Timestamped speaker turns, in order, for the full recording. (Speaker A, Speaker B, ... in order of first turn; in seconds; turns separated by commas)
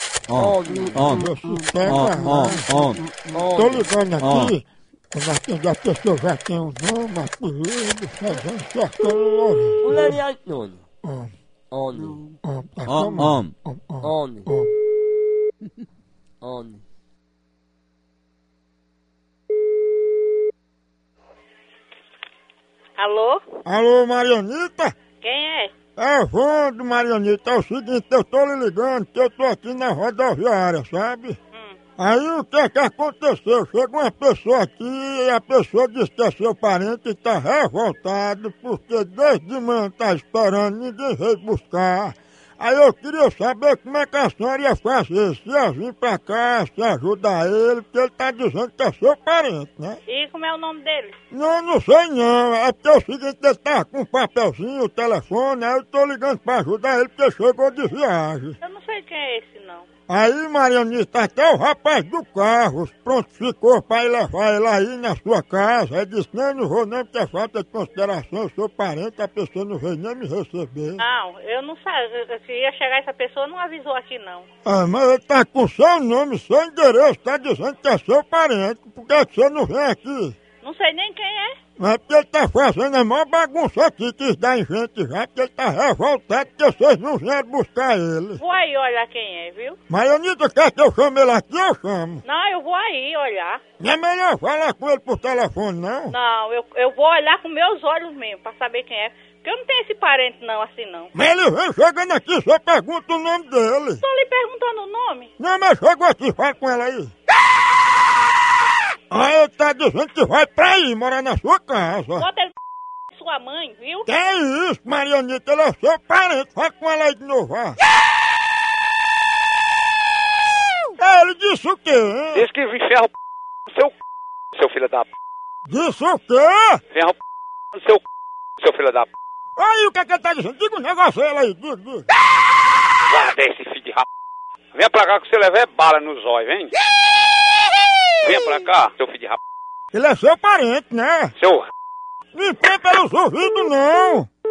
Speaker A: 0.3-1.3, Speaker B: 0.4-1.1, Speaker C: 1.1-2.7, Speaker A: 1.9-3.2, Speaker B: 3.3-3.9, Speaker C: 3.5-10.2, Speaker A: 4.2-4.5, Speaker B: 9.8-10.8, Speaker C: 11.0-11.3, Speaker B: 11.7-12.3, Speaker C: 12.4-14.7, Speaker A: 12.9-13.5, Speaker B: 14.0-14.5, Speaker B: 16.4-16.8, Speaker D: 23.0-23.4, Speaker C: 23.6-24.9, Speaker D: 25.2-25.7, Speaker C: 26.0-31.4, Speaker C: 32.0-50.0, Speaker D: 50.1-51.2, Speaker C: 51.3-58.6, Speaker D: 58.6-59.9, Speaker C: 60.1-71.0, Speaker D: 71.0-74.5, Speaker C: 74.7-80.4, Speaker D: 80.6-81.6, Speaker C: 81.8-88.4, Speaker D: 88.4-89.8, Speaker C: 89.9-92.2, Speaker D: 92.2-93.6, Speaker C: 93.8-96.2, Speaker D: 96.1-101.1, Speaker C: 101.1-104.0, Speaker D: 104.0-105.3, Speaker C: 105.4-107.1, Speaker C: 109.1-112.3, Speaker D: 112.2-112.5, Speaker D: 113.1-114.1, Speaker C: 114.1-117.8, Speaker C: 121.0-122.5, Speaker E: 122.3-123.1, Speaker E: 124.5-125.1, Speaker C: 125.7-126.8, Speaker E: 127.7-128.0, Speaker E: 128.6-129.1, Speaker C: 129.6-132.1, Speaker E: 133.1-134.1, Speaker E: 134.8-136.7, Speaker E: 138.2-139.4, Speaker C: 139.9-141.3, Speaker E: 141.4-141.7, Speaker C: 142.3-144.3